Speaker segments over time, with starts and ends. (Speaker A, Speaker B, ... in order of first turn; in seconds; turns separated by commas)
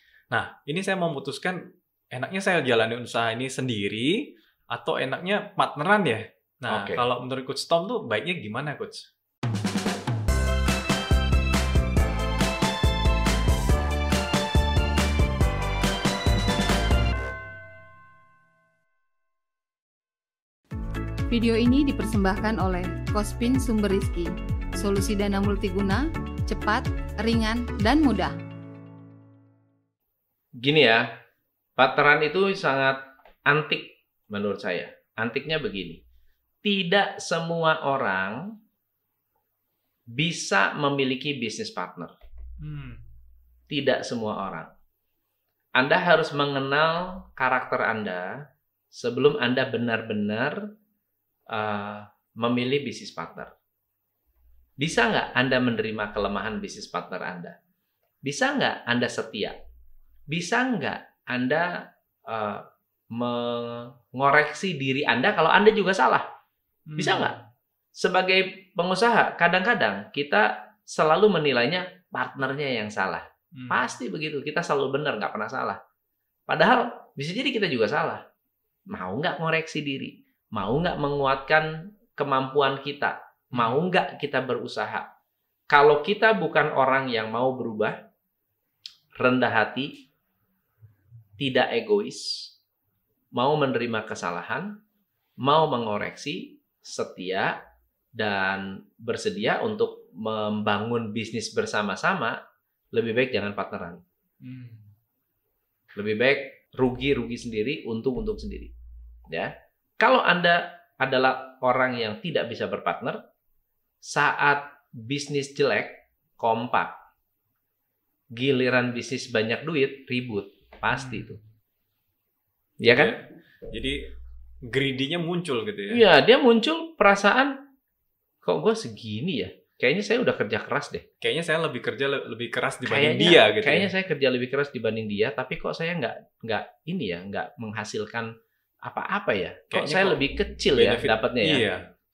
Speaker A: 0.3-9.0, Speaker B: 6.7-7.0, Speaker C: 21.3-28.3, Speaker B: 30.6-31.1, Speaker B: 31.8-36.0, Speaker B: 36.6-38.4, Speaker B: 40.1-42.1, Speaker A: 42.6-43.0, Speaker B: 43.7-44.7, Speaker B: 45.8-48.3, Speaker B: 48.9-50.6, Speaker B: 51.5-53.5, Speaker B: 54.8-57.5, Speaker B: 58.2-59.5, Speaker B: 60.3-61.7, Speaker B: 62.3-66.2, Speaker A: 66.9-67.3, Speaker B: 67.0-67.3, Speaker B: 68.0-75.8, Speaker B: 76.5-78.2, Speaker B: 78.9-85.0, Speaker B: 85.7-88.0, Speaker B: 89.2-89.9, Speaker B: 91.4-92.5, Speaker B: 93.3-94.7, Speaker B: 95.4-97.5, Speaker B: 98.2-102.4, Speaker B: 102.9-104.0, Speaker A: 104.4-104.8, Speaker B: 105.9-108.7, Speaker B: 109.3-113.2, Speaker B: 114.0-116.9, Speaker B: 118.3-121.4, Speaker B: 122.8-123.2, Speaker A: 122.9-124.1, Speaker A: 124.6-126.0, Speaker B: 125.9-127.5, Speaker B: 128.4-131.0, Speaker A: 131.2-133.9, Speaker B: 132.8-138.3, Speaker B: 138.8-141.6, Speaker A: 139.7-140.2, Speaker A: 140.7-141.9